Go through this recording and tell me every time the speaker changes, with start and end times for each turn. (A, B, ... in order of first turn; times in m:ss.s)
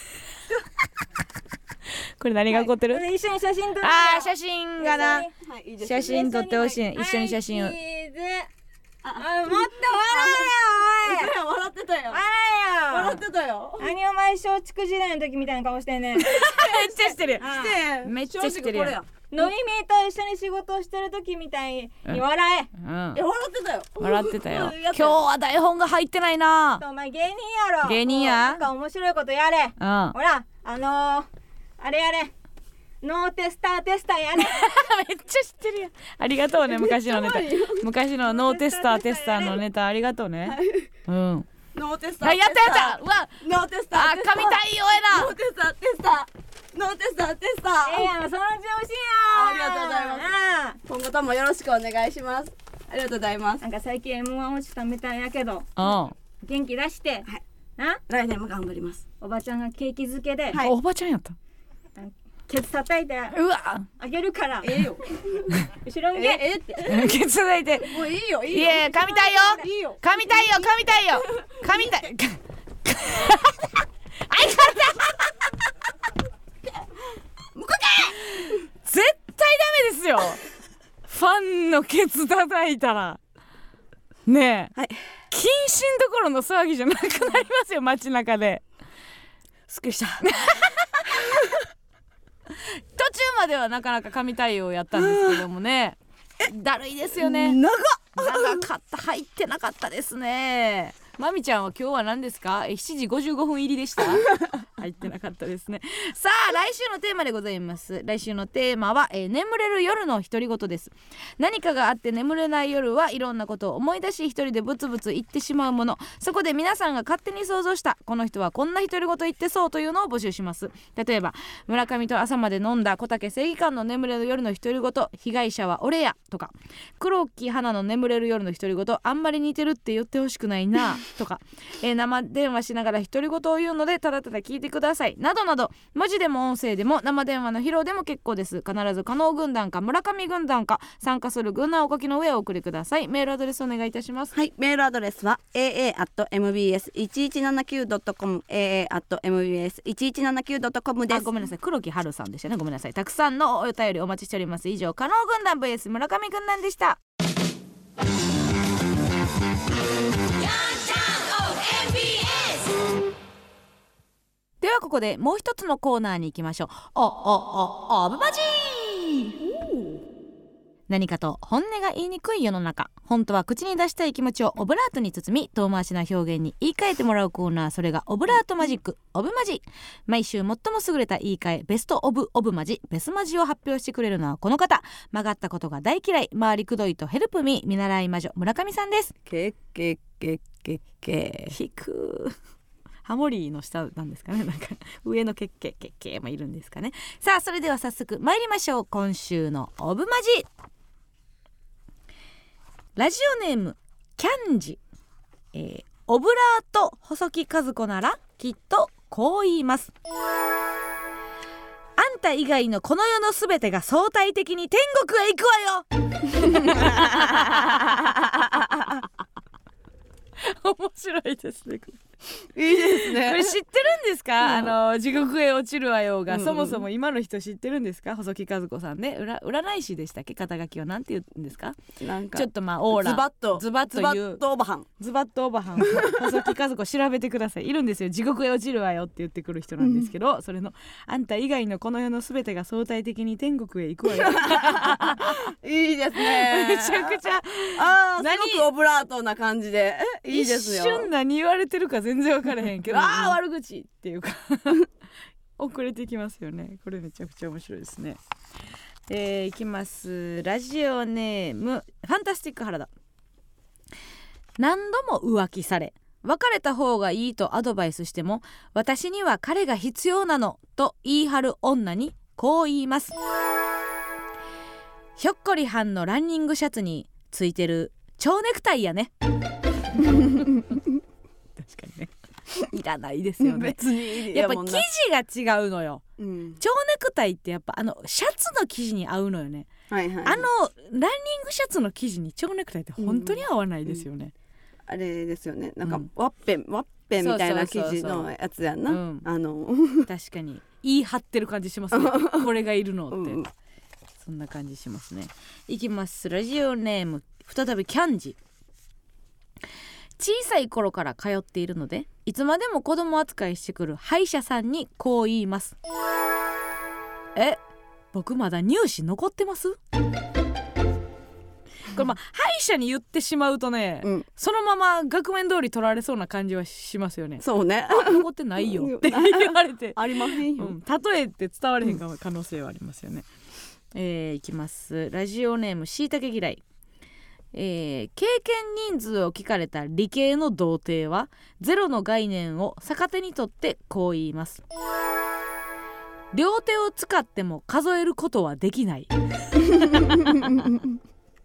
0:01.9-0:03.0 A
0:02.5-0:05.3 B
0:03.8-0:05.3 A
0:04.9-0:06.6 C
0:05.8-0:07.8 A
0:06.0-0:08.5 B
0:09.0-0:12.2 C
0:09.2-0:11.3 B
0:12.1-0:13.2 B
0:12.9-0:13.9 C
0:13.8-0:17.7 B
0:16.2-0:19.0 A
0:17.4-0:19.5 C
0:19.3-0:22.7 B
0:22.8-0:23.2 A
0:23.1-0:25.2 C
0:24.0-0:26.8 A
0:26.8-0:31.3 B
0:27.8-0:28.6 A
0:29.8-0:30.2 A
0:31.8-0:32.3 B
0:33.0-0:34.7 B
0:34.4-0:41.5 A
0:36.7-0:37.8 C
0:38.2-0:39.6 B
0:40.4-0:40.9 C
0:41.7-0:48.1 C
0:42.2-0:45.3 A
0:47.8-0:50.8 B
0:49.3-0:50.3 C
0:50.8-0:53.6 C
0:53.6-0:55.7 B
0:55.8-0:56.1 A
0:56.4-0:57.2 B
0:57.8-0:58.0 B
0:58.1-0:59.0 C
0:59.2-1:00.6 B
1:00.5-1:00.7 C
1:00.5-1:01.4 A
1:02.0-1:03.4 B
1:03.3-1:03.8 A
1:04.0-1:04.8 B
1:04.6-1:07.0 C
1:05.7-1:06.4 B
1:06.8-1:15.3 A
1:07.8-1:10.7 C
1:09.2-1:09.6 B
1:17.5-1:18.2 C
1:18.4-1:20.4 A
1:21.1-1:23.2 A
1:24.2-1:24.7 A
1:25.3-1:28.6 A
1:29.7-1:30.3 C
1:30.2-1:31.1 A
1:32.5-1:37.6 A
1:35.0-1:35.4 C
1:37.2-1:38.6 C
1:38.2-2:24.3 A
2:24.3-2:31.3 C
2:31.1-2:37.0 A
2:40.6-2:42.7 A
2:44.6-2:49.4 A
2:49.4-2:50.0 C
2:50.9-3:09.1 A
3:09.2-3:11.6 C
3:11.5-3:12.3 A
3:13.0-3:20.5 A
3:23.0-3:24.8 A
3:25.5-3:29.9 A
3:32.0-3:38.1 A
3:36.5-3:38.6 C
3:40.4-3:42.0 A
3:42.5-3:43.6 C
3:42.8-3:51.8 A
3:44.4-3:44.7 C
3:46.3-3:46.8 C
3:52.0-3:54.8 C
3:52.3-3:54.4 A
3:55.0-4:05.4 A
3:56.0-3:56.2 C
3:59.8-4:00.1 C
4:04.1-4:07.2 C
4:06.2-4:08.7 A
4:07.7-4:11.1 C
4:10.3-4:14.9 A
4:12.9-4:13.3 C
4:15.6-4:18.2 A
4:19.1-4:22.9 A
4:24.6-4:33.1 A
4:35.2-4:39.1 A
4:40.0-4:40.4 A
4:41.6-4:46.0 A
4:43.4-4:44.8 C
4:46.2-4:46.6 C
4:46.6-4:49.7 A
4:49.9-4:50.5 C
4:50.2-4:54.3 A
4:53.0-4:54.0 C
4:54.9-5:00.1 C
4:57.1-4:58.3 A
4:58.9-4:59.2 A
5:00.0-5:03.4 A
5:01.9-5:02.4 C
5:03.1-5:03.5 C
5:04.2-5:08.4 A
5:10.2-5:15.8 A
5:17.3-5:17.6 A
5:18.1-5:19.8 A
5:21.9-5:33.3 A
5:27.4-5:30.8 C
5:33.9-5:36.6 A
5:37.5-5:44.6 A
5:46.3-5:50.7 A
5:49.9-5:50.8 C